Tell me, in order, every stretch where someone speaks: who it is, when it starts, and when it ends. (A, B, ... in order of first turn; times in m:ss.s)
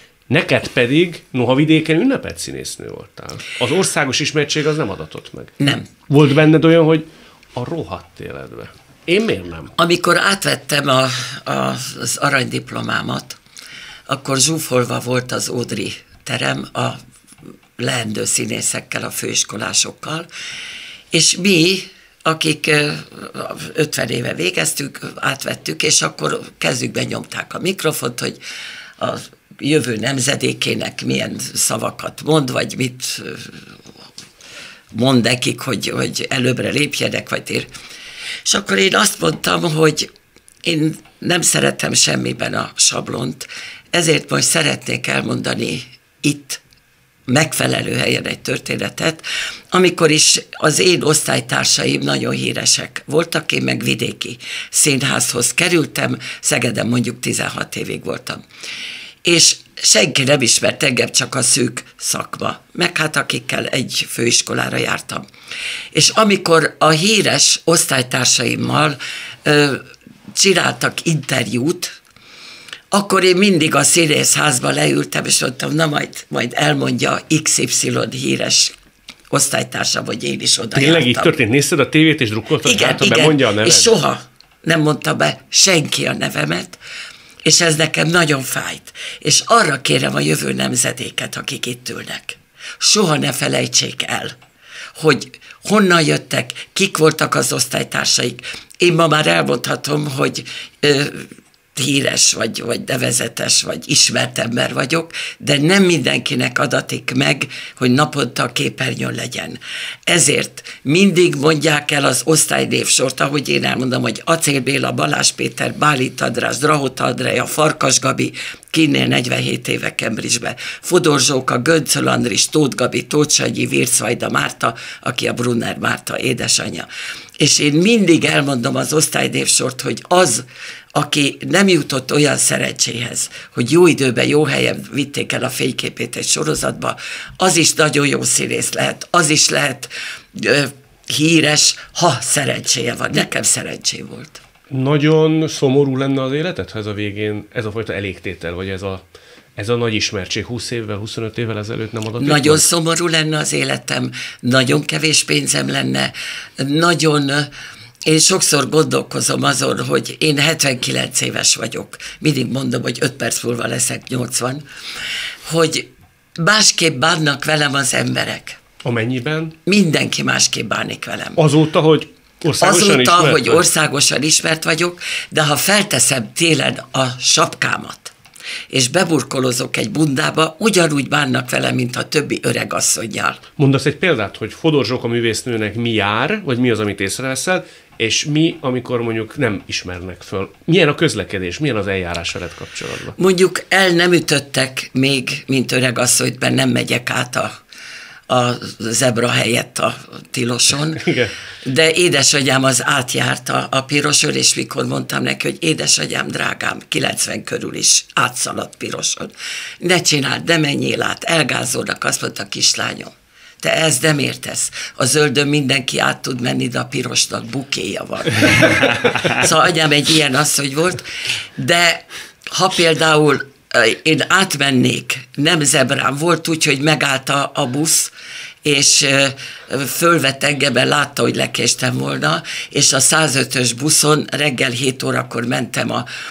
0:00.3-0:09.7 A
0:05.6-0:05.8 B
0:09.8-0:13.4 B
0:14.1-0:17.0 B
0:17.8-0:20.3 B
0:21.1-0:28.4 B
0:29.0-0:33.6 B
0:34.9-0:37.7 B
0:38.4-0:40.1 B
0:40.6-0:46.6 B
0:47.3-0:58.4 B
0:59.2-1:05.2 B
1:05.9-1:09.8 B
1:10.3-1:12.0 B
1:12.9-1:18.7 B
1:19.3-1:21.3 B
1:20.7-1:23.9 A
1:22.6-1:26.8 B
1:27.4-1:34.4 B
1:35.0-2:06.9 B
2:07.4-2:24.4 B
2:24.7-2:29.0 A
2:29.6-2:32.6 A
2:32.2-2:37.5 B
2:38.0-2:44.6 B
2:45.4-2:48.6 B
2:48.8-2:49.6 A
2:49.6-2:51.4 B
2:51.4-2:53.6 A
2:52.6-2:58.1 B
2:58.7-3:03.4 B
3:03.6-3:13.2 A
3:13.2-3:17.5 B
3:18.3-3:21.1 B
3:21.0-3:21.3 A
3:21.6-3:48.1 B
3:48.6-3:56.1 B